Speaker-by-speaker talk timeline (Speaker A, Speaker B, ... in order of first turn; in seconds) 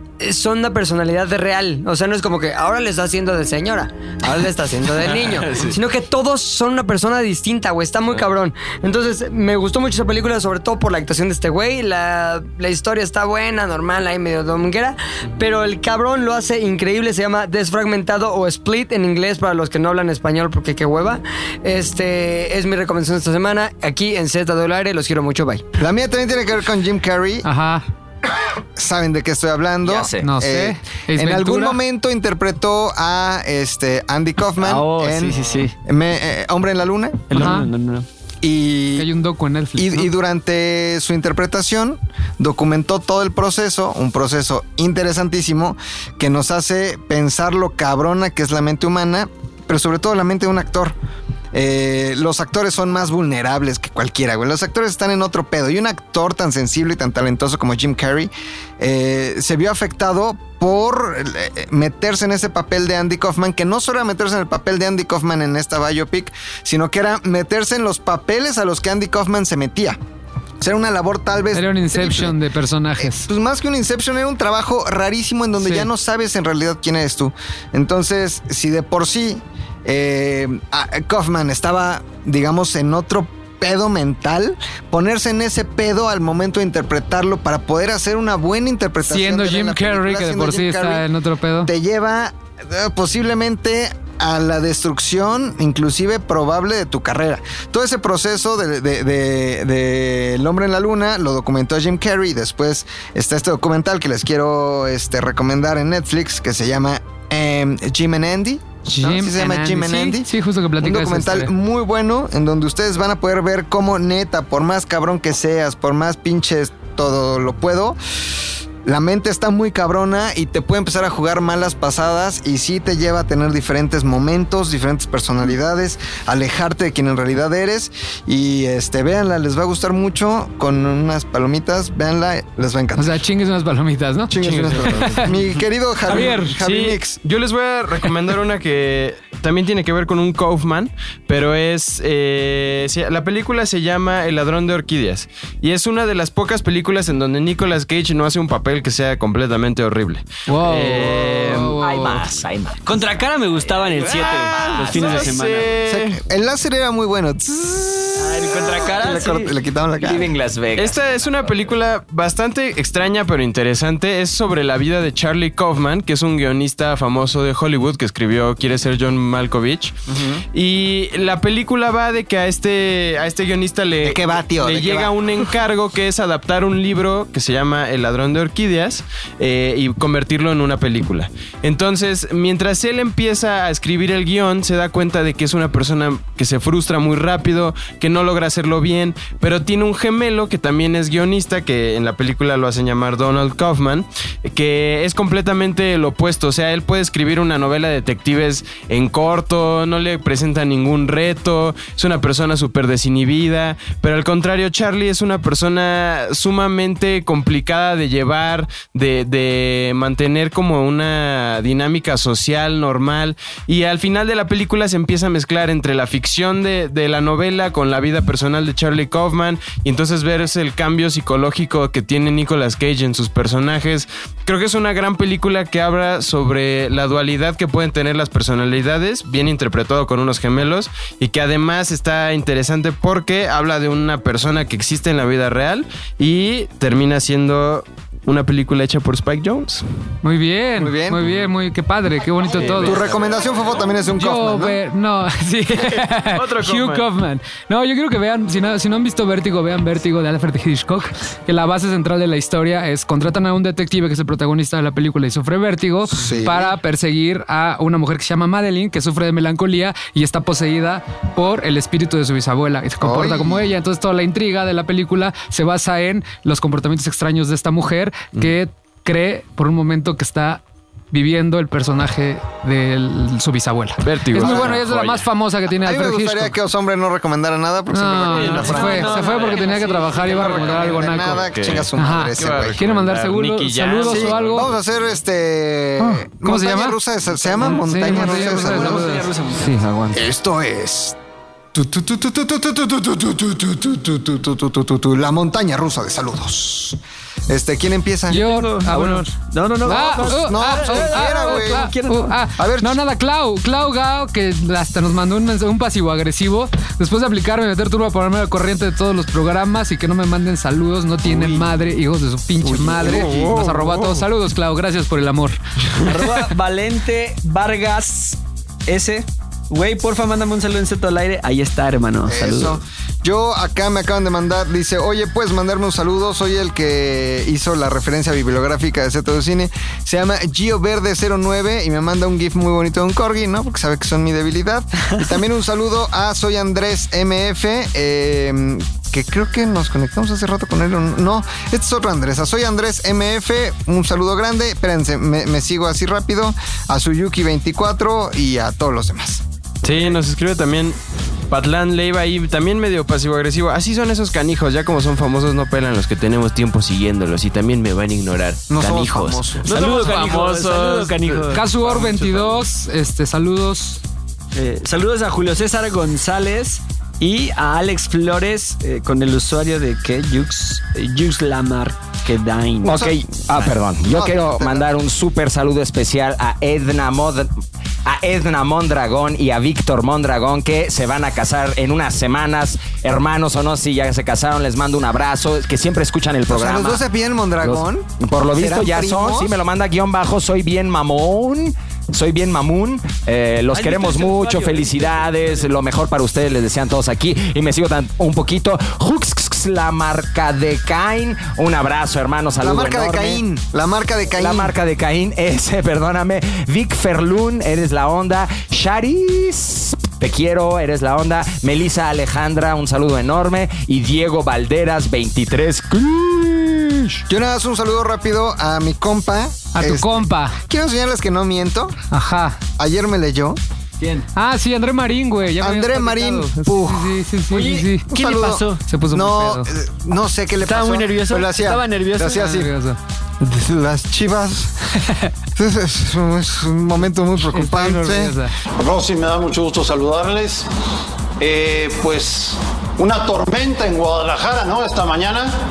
Speaker A: 0.2-25.6
Speaker B: 5.1-5.8, 134.4-134.9, 136.2-151.7, 154.1-156.2, 160.8-170.0, 170.5-239.8, 242.5-243.8, 245.8-247.1, 274.0-275.3, 278.4-279.6, 280.4-280.8, 281.4-284.9, 311.3-311.6, 312.6-314.2, 349.8-351.0, 351.5-362.6
Speaker C: 25.8-27.5, 28.8-37.5, 38.4-39.1, 39.8-51.0, 51.5-70.0, 70.6-72.4, 73.0-91.1, 91.7-110.3, 110.8-118.0, 118.8-133.2, 134.3-137.2, 155.8-160.3, 170.1-170.4, 174.0-175.5, 240.8-241.2, 242.6-244.8, 256.1-256.8, 263.0-263.7, 274.4-274.9, 275.7-282.9, 284.0-289.1, 289.8-291.1, 291.7-298.4, 300.2-301.9, 302.6-303.0, 322.3-349.4, 358.7-359.8, 372.8-374.9, 386.5-389.5, 402.6-404.7, 417.3-422.0, 422.8-423.6, 425.6-427.2, 428.1-432.7, 433.4-434.7, 435.6-438.4
Speaker D: 27.4-27.9, 30.2-31.8, 37.3-37.7, 39.0-40.1, 71.5-73.3, 75.6-75.9, 89.0-91.7, 108.8-111.5, 133.0-135.4, 136.1-136.6, 150.5-152.2, 240.2-243.0, 244.2-276.6, 277.9-284.7, 286.0-287.0, 287.6-289.3, 298.3-315.6, 361.5-364.0, 419.7-420.6, 422.1-422.6, 424.4-428.1, 428.8-429.7, 432.3-433.0, 435.0-435.3, 437.5-438.5
Speaker E: 29.8-30.3, 151.8-152.8, 153.7-155.4, 160.0-161.3, 372.8-377.5, 378.1-387.0, 387.6-403.4, 404.3-417.2
Speaker F: 34.6-35.7, 37.3-38.1, 150.9-151.8, 152.8-155.8, 158.2-159.5, 278.3-281.1, 287.7-289.9, 298.3-302.4, 316.0-322.8, 359.7-361.6, 364.5-373.0, 393.7-395.8, 424.0-424.3, 427.5-428.8, 430.6-432.4
Speaker G: 438.8-440.7, 441.4-445.5